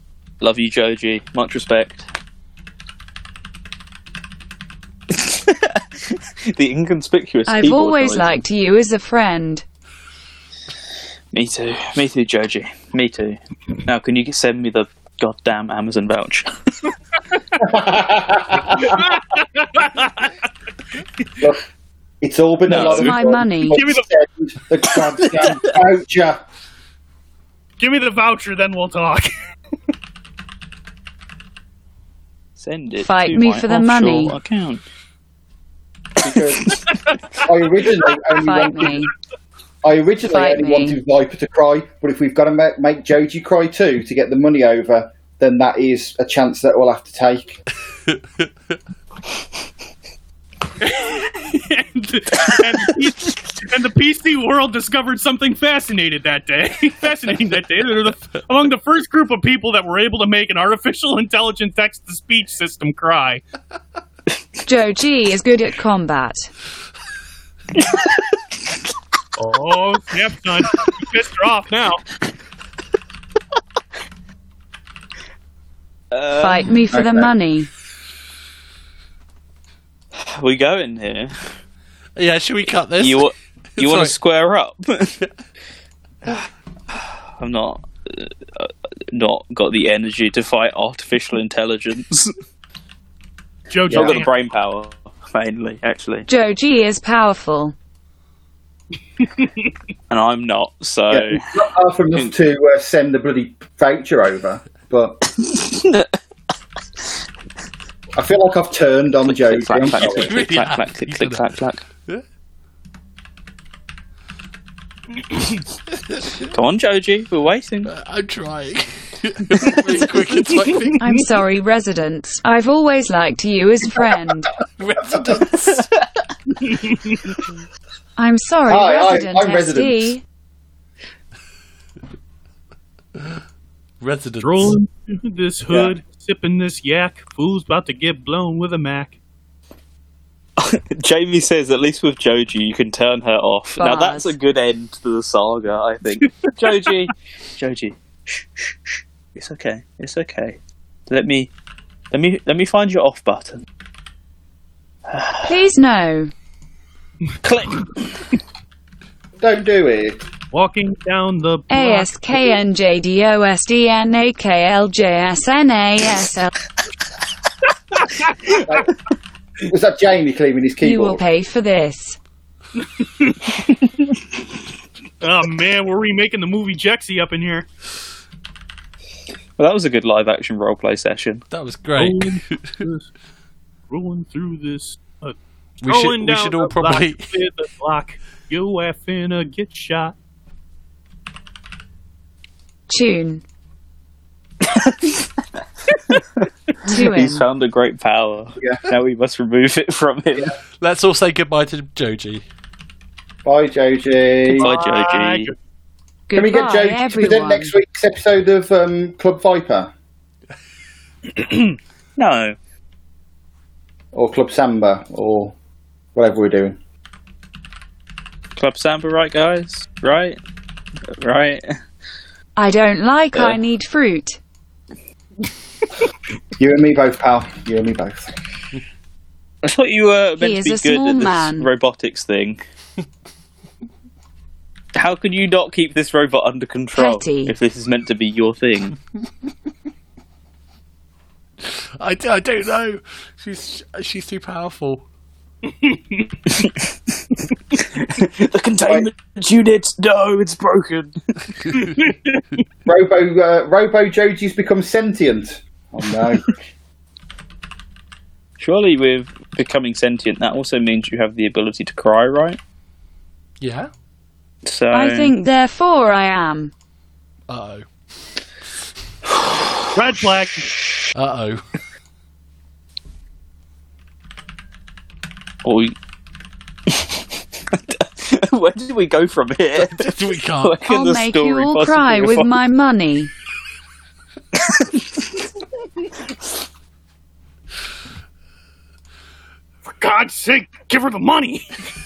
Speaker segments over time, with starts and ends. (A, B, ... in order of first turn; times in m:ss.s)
0:00.4-0:02.1 A
0:05.1-0:08.4 A
0:07.5-0:09.6 B
0:11.3-0:16.9 A
0:17.6-0:19.0 C
0:18.7-0:20.3 D
0:22.2-0:26.4 C
0:22.7-0:23.2 A
0:22.7-0:23.8 B
0:23.7-0:24.1 D
0:27.8-0:29.3 D
0:32.6-0:34.8 A
0:33.0-0:34.4 B
0:36.2-0:36.8 C
0:37.4-0:39.0 C
0:38.4-0:39.1 B
0:39.8-0:47.6 C
0:40.3-0:41.0 B
0:48.1-0:48.4 E
0:50.8-1:03.4 D
1:04.7-1:06.5 B
1:07.8-1:08.2 A
1:09.4-1:12.0 D
1:16.1-1:16.8 A
1:16.4-1:17.7 B
1:16.9-1:17.3 C
1:20.2-1:21.3 A
1:22.2-1:23.3 E
1:23.0-1:25.2 A
1:23.8-1:24.1 E
1:26.2-1:32.3 A
1:33.7-1:34.3 D
1:33.9-1:34.2 C
1:33.9-1:36.3 A
1:36.3-1:37.7 B
1:40.1-1:41.4 A
1:41.1-1:45.3 C
1:45.5-1:46.1 A
1:48.2-1:50.4 C
1:49.2-1:51.8 A
1:49.9-1:51.4 E
1:56.4-1:57.9 A
1:57.8-2:01.0 E
1:59.7-2:01.2 D
2:01.0-2:04.5 B
2:04.8-2:05.9 E
2:06.6-2:07.3 D
2:08.2-2:10.2 B
2:08.7-2:10.2 C
2:14.0-2:14.8 E
2:14.4-2:19.2 D
2:20.6-2:30.6 A
2:23.8-2:24.4 B
2:26.4-2:26.9 D
2:31.1-2:31.5 A
2:32.1-2:33.6 A
2:35.1-2:35.6 A
2:35.5-2:36.3 B
2:37.4-2:38.2 A
2:39.4-2:40.2 C
2:40.5-2:42.2 D
2:41.7-2:46.5 B
2:47.9-2:48.9 D
2:48.7-2:48.9 C
2:49.6-2:51.2 C
2:50.8-2:52.2 B
2:52.8-2:53.5 D
2:55.2-2:57.7 D
2:59.6-3:01.4 A
3:01.5-3:02.8 E
3:02.0-3:03.1 D
3:03.9-3:05.4 D
3:05.8-3:07.3 E
3:05.9-3:10.2 D
3:12.9-3:13.4 B
3:14.6-3:15.3 A
3:16.9-3:17.5 B
3:16.9-3:20.5 A
3:20.8-3:22.4 E
3:23.4-3:24.7 C
3:24.5-3:25.5 D
3:24.6-3:25.5 A
3:26.3-3:27.7 B
3:26.4-3:29.9 C
3:32.2-3:32.6 A
3:34.1-3:35.6 C
3:36.2-3:36.8 C
3:38.6-3:40.4 A
3:41.2-3:41.8 A
3:42.6-3:44.4 B
3:46.6-3:48.3 C
3:49.6-3:52.6 A
3:50.4-3:51.7 B
3:55.0-3:59.0 A
3:57.0-3:57.5 B
4:01.6-4:05.0 E
4:05.7-4:06.4 D
4:08.0-4:11.2 A
4:08.8-4:09.1 C
4:11.8-4:12.4 D
4:12.9-4:16.5 C
4:18.6-4:22.6 A
4:23.6-4:23.9 E
4:24.6-4:25.4 A
4:24.9-4:26.7 B
4:27.5-4:27.8 E
4:29.4-4:29.8 A
4:29.9-4:30.7 D
4:31.1-4:31.6 E
4:35.6-4:35.9 A
4:36.9-4:42.5 A
4:39.8-4:40.8 E
4:40.8-4:43.3 B
4:44.6-4:45.2 A
4:50.0-4:51.7 D